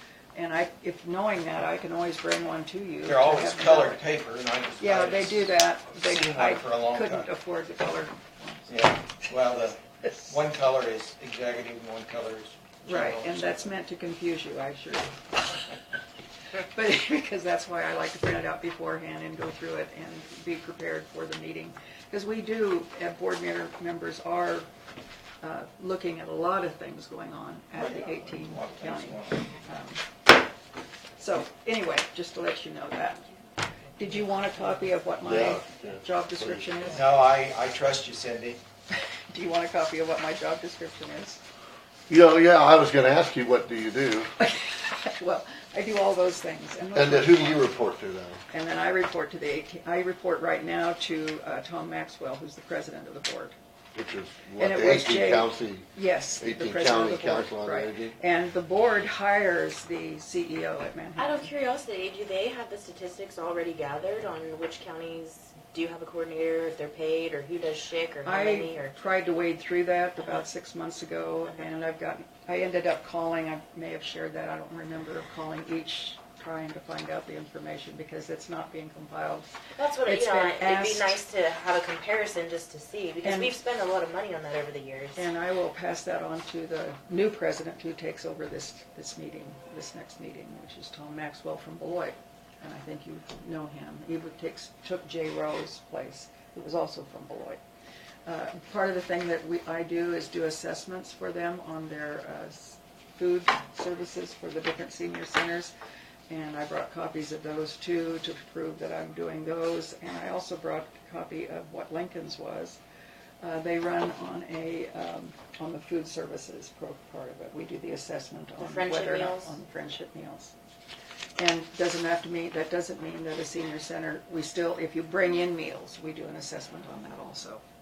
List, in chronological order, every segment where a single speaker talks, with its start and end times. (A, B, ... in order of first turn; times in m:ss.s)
0:00.3-0:04.0 A
0:03.0-0:07.3 B
0:04.8-0:09.2 A
0:08.7-0:13.7 B
0:12.8-0:15.6 A
0:16.6-0:24.7 A
0:25.4-0:30.1 A
0:27.7-0:29.5 B
0:31.2-0:33.2 A
0:34.0-0:37.2 A
0:34.0-0:34.7 C
0:35.2-0:37.0 D
0:36.9-0:38.6 B
0:38.9-0:41.4 A
0:42.1-0:44.3 D
0:44.4-0:47.7 A
0:46.9-0:48.4 D
0:48.5-0:53.6 A
0:53.9-0:58.2 D
0:54.6-1:01.5 A
1:01.2-1:09.0 C
1:08.2-1:19.5 A
1:19.8-1:25.3 C
1:20.0-1:21.1 A
1:23.2-1:23.6 A
1:25.2-1:37.6 A
1:38.2-1:45.7 A
1:46.3-1:52.8 A
1:53.4-2:00.5 A
1:58.6-1:59.6 C
2:01.4-2:07.6 A